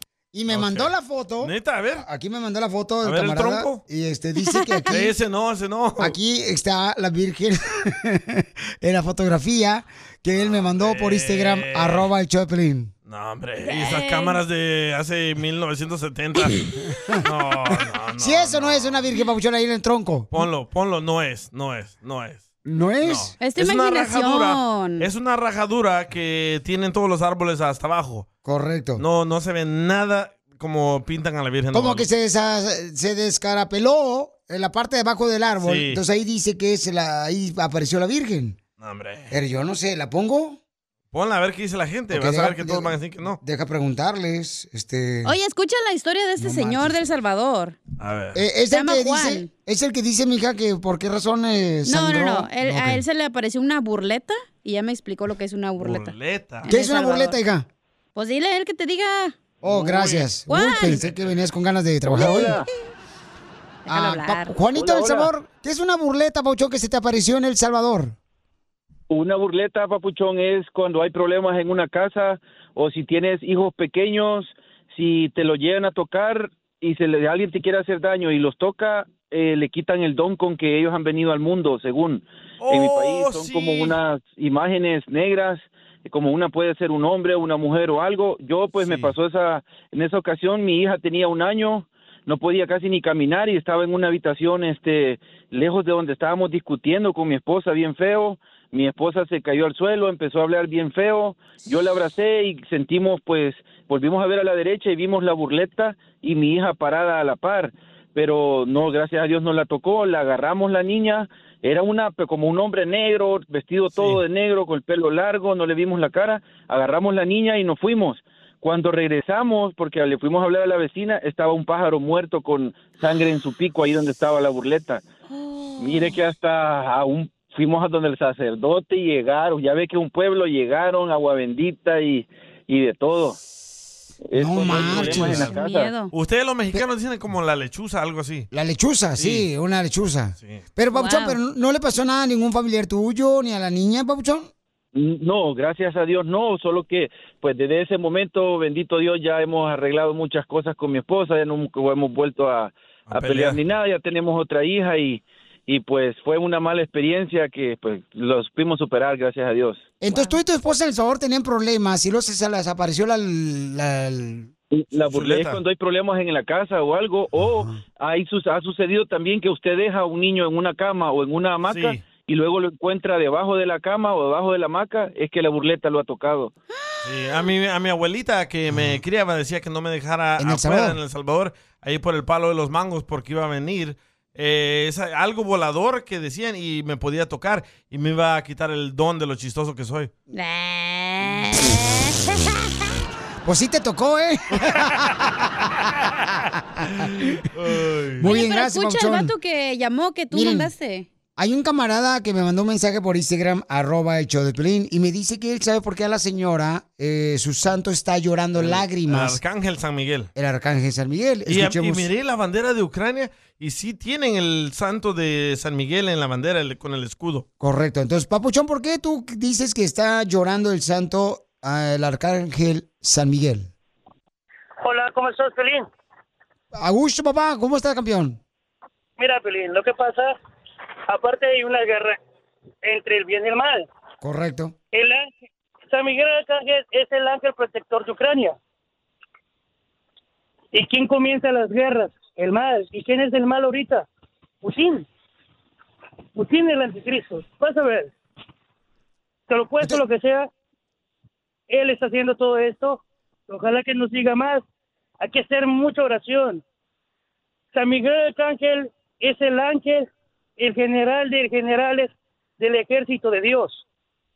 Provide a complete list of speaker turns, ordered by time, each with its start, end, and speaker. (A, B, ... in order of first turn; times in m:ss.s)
0:00.3-0:05.1 A
0:00.5-0:02.0 B
0:03.0-0:03.8 B
0:04.9-0:06.1 B
0:06.0-0:12.9 A
0:10.3-0:12.1 B
0:13.0-0:16.6 B
0:13.6-0:14.4 C
0:17.2-0:19.0 B
0:18.2-0:20.3 A
0:20.3-0:22.5 B
0:22.6-0:23.3 A
0:23.0-0:28.3 B
0:23.4-0:25.1 C
0:28.4-0:29.0 A
0:29.0-0:32.0 B
0:31.7-0:38.6 A
0:35.6-0:36.0 B
0:38.8-0:39.3 B
0:39.3-0:40.6 A
0:41.1-0:43.4 B
0:42.1-0:45.4 A
0:45.2-0:47.8 C
0:46.4-0:47.1 A
0:48.0-0:48.4 B
0:48.3-0:53.0 A
0:48.7-0:49.5 C
0:51.8-0:57.4 C
0:55.8-0:56.7 B
0:56.6-0:57.7 A
0:58.2-0:59.3 C
0:59.6-1:02.6 A
0:59.6-1:00.3 B
1:00.5-1:01.0 C
1:01.0-1:01.2 B
1:02.1-1:02.6 D
1:02.2-1:02.4 C
1:03.9-1:04.6 C
1:03.9-1:08.2 A
1:04.8-1:05.3 D
1:09.1-2:05.0 D
1:22.6-1:24.0 B
1:28.8-1:29.1 B
1:53.9-1:54.2 B
2:05.3-2:06.1 C
2:05.8-2:13.4 D
2:14.3-2:15.9 D
2:14.3-2:15.5 A
2:14.7-2:15.5 B
2:15.3-2:16.1 C
2:16.1-2:18.5 B
2:18.5-2:24.5 A
2:19.2-2:19.5 B
2:20.9-2:21.4 C
2:24.9-2:39.8 D
2:33.1-2:33.6 B
2:40.0-2:44.5 A
2:40.1-2:40.3 C
2:44.7-2:56.5 D
2:45.1-2:45.6 B
2:47.4-2:47.8 A
2:51.6-2:52.0 B
2:56.9-2:57.4 C
2:57.0-3:10.1 B
2:58.7-2:59.0 A
3:00.4-3:01.0 A
3:10.3-3:12.2 C
3:13.4-3:17.4 A
3:17.5-3:18.3 B
3:18.2-3:19.3 A
3:18.2-3:21.1 C
3:20.3-3:20.7 A
3:21.4-3:29.4 A
3:28.6-3:30.3 B
3:30.4-3:32.1 A
3:31.5-3:37.4 B
3:37.6-3:43.7 A
3:44.8-3:45.9 E
3:46.7-3:48.4 A
3:49.2-3:50.4 E
3:51.1-3:52.2 E
3:52.8-3:53.9 E
3:54.2-3:54.7 A
3:54.9-3:55.3 E
3:55.9-3:58.6 E
4:00.7-4:04.0 E
4:04.6-4:05.0 E
4:06.4-4:08.1 E
4:09.5-4:10.5 E
4:11.7-4:14.6 E
4:15.2-4:16.6 E
4:17.7-4:23.8 E